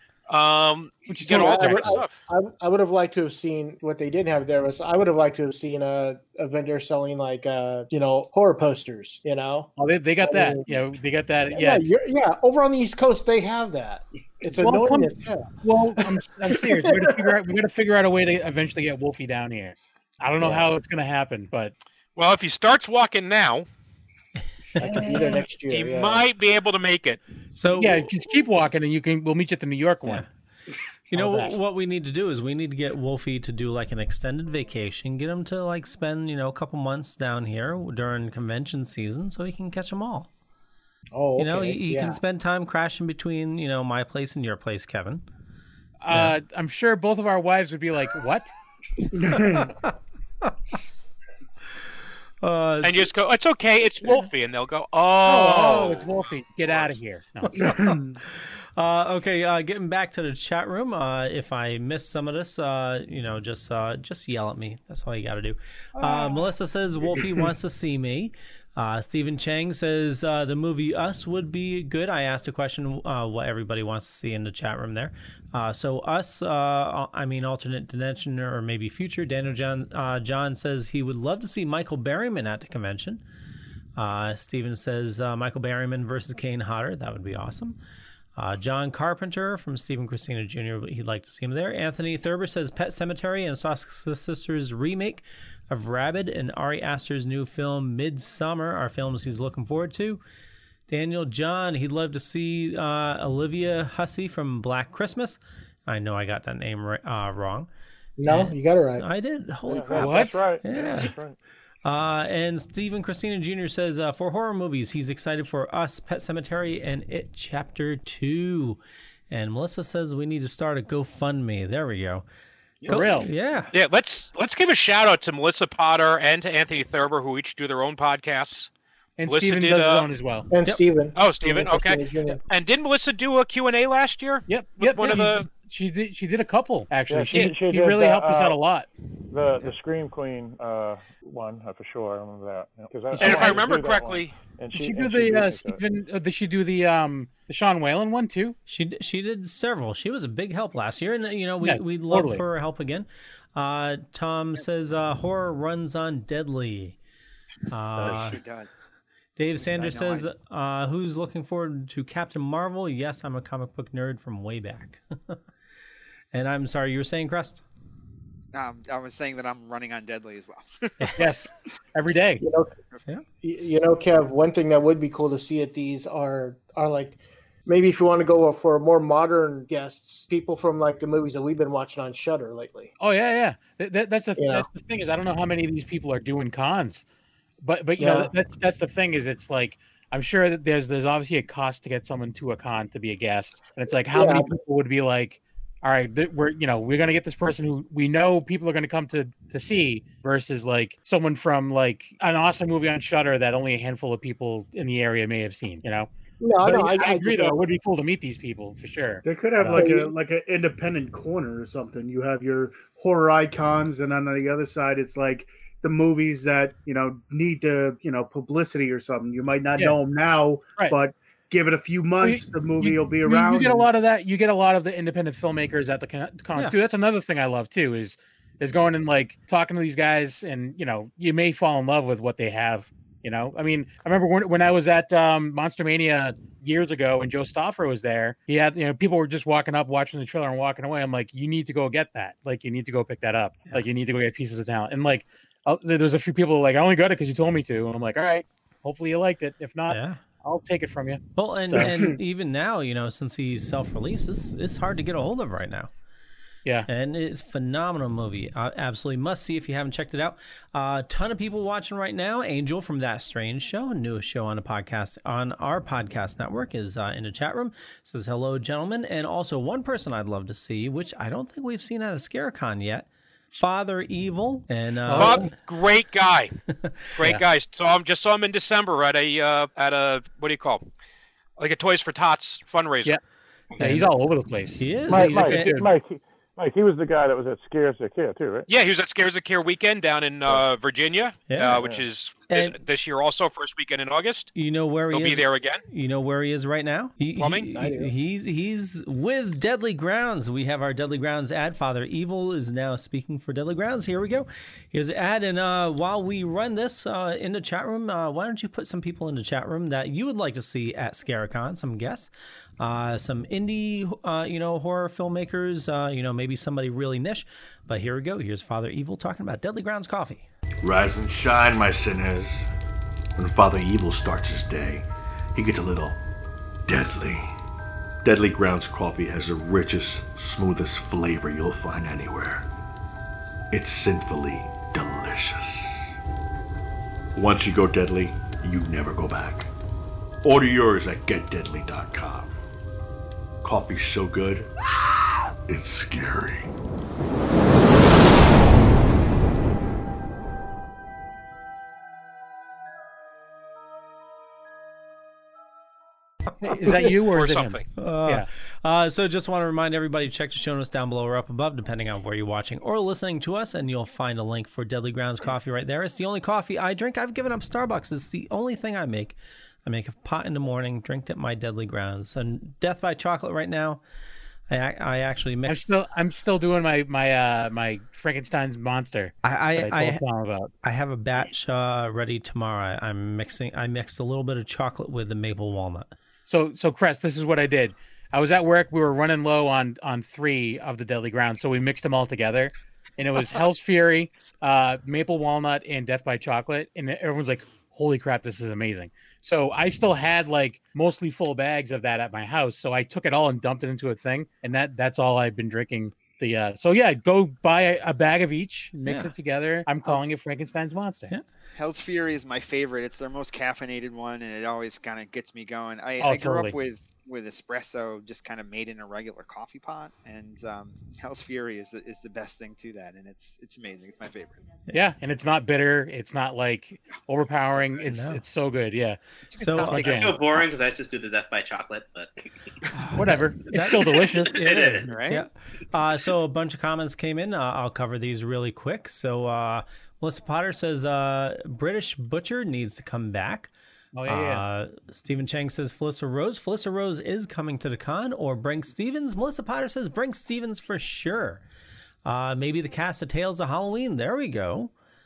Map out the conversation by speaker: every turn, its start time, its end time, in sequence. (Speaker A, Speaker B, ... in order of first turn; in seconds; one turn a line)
Speaker A: 0.3-2.2
Speaker B: 1.1-2.0
Speaker C: 1.3-9.7
Speaker B: 9.8-11.9
Speaker C: 10.2-10.7
Speaker C: 11.5-15.5
Speaker B: 14.5-21.7
Speaker C: 16.6-16.9
Speaker C: 20.4-20.7
Speaker A: 22.2-23.7
Speaker D: 24.8-25.2
Speaker C: 24.8-26.3
Speaker A: 25.7-27.2
Speaker D: 27.6-28.1
Speaker B: 27.8-30.3
Speaker D: 31.1-40.3
Speaker B: 31.1-31.6
Speaker C: 41.1-42.2
Speaker D: 41.4-45.2
Speaker B: 46.0-48.5
Speaker D: 46.1-46.4
Speaker E: 49.1-49.8
Speaker D: 49.3-49.8
Speaker D: 52.4-53.1
Speaker A: 52.8-56.1
Speaker B: 55.2-57.8
Speaker D: 57.4-83.2
Speaker E: 57.6-58.2
Speaker B: 66.0-66.4
Speaker D: 84.0-87.8
Speaker D: 88.4-100.2
Speaker D: 100.9-107.7
Speaker C: 108.2-109.1
Speaker D: 108.3-111.2
Speaker F: 109.7-111.4
Speaker B: 110.0-110.4
Speaker D: 111.8-122.3
Speaker D: 122.8-123.7
Speaker B: 122.9-123.3
Speaker A: 123.7-128.7
Speaker B: 129.2-130.5
Speaker A: 129.3-130.1
Speaker C: 130.5-132.4
Speaker A: 131.2-135.5
Speaker B: 134.5-138.9
Speaker F: 137.1-138.6
Speaker F: 139.3-145.8
Speaker B: 143.2-143.6
Speaker A: 143.2-144.4
Speaker B: 144.7-148.6
Speaker D: 148.7-157.0
Speaker B: 151.6-152.4
Speaker D: 157.7-158.4
Speaker G: 158.0-158.7
Speaker B: 158.0-158.2
Speaker D: 159.4-165.4
Speaker G: 159.6-160.3
Speaker D: 166.3-167.7
Speaker G: 168.5-171.3
Speaker B: 171.2-172.4
Speaker C: 172.4-172.7
Speaker C: 173.4-182.9
Speaker B: 183.0-187.0
Speaker C: 184.4-184.7
Speaker B: 187.6-206.1
Speaker C: 188.0-188.3
Speaker C: 194.1-194.5
Speaker C: 206.4-207.6
Speaker B: 206.6-209.9
Speaker E: 209.2-223.9
Speaker C: 209.8-210.1
Speaker B: 222.2-251.9
Speaker D: 249.9-250.2
Speaker D: 251.4-255.9
Speaker D: 256.9-275.5
Speaker B: 275.1-275.4
Speaker A: 275.2-276.6
Speaker A: 277.1-280.8
Speaker A: 281.6-283.2
Speaker D: 283.8-284.1
Speaker B: 283.8-285.9
Speaker D: 284.8-285.8
Speaker F: 285.1-288.7
Speaker A: 288.7-294.5
Speaker D: 291.5-291.9
Speaker F: 291.7-292.0
Speaker D: 292.5-292.8
Speaker D: 294.6-320.5
Speaker A: 295.1-295.8
Speaker A: 297.4-297.7
Speaker C: 297.8-298.1
Speaker H: 320.8-322.7
Speaker H: 323.4-326.2
Speaker H: 326.9-327.6
Speaker H: 328.2-332.7
Speaker H: 333.7-336.1
Speaker H: 337.4-339.7
Speaker H: 340.4-342.6
Speaker H: 343.6-344.7
Speaker H: 345.7-346.7
Speaker B: 356.6-358.5
Speaker A: 357.3-357.9
Speaker D: 358.0-374.0
Speaker D: 374.7-376.0
Speaker B: 375.7-380.7
Speaker D: 379.4-380.2
Speaker D: 380.8-386.1
Speaker B: 386.5-411.3
Speaker D: 409.1-409.3
Speaker G: 411.8-424.6
Speaker B: 416.2-416.8
Speaker B: 424.9-429.2
Speaker D: 428.1-428.4
Speaker G: 429.5-430.7
Speaker D: 429.6-430.4
Speaker B: 429.8-430.3
Speaker I: 430.1-432.3
Speaker D: 432.9-443.7
Speaker B: 433.2-434.6
Speaker I: 434.6-435.3
Speaker G: 435.0-435.4
Speaker B: 444.1-444.6
Speaker D: 444.3-451.6
Speaker D: 452.2-454.9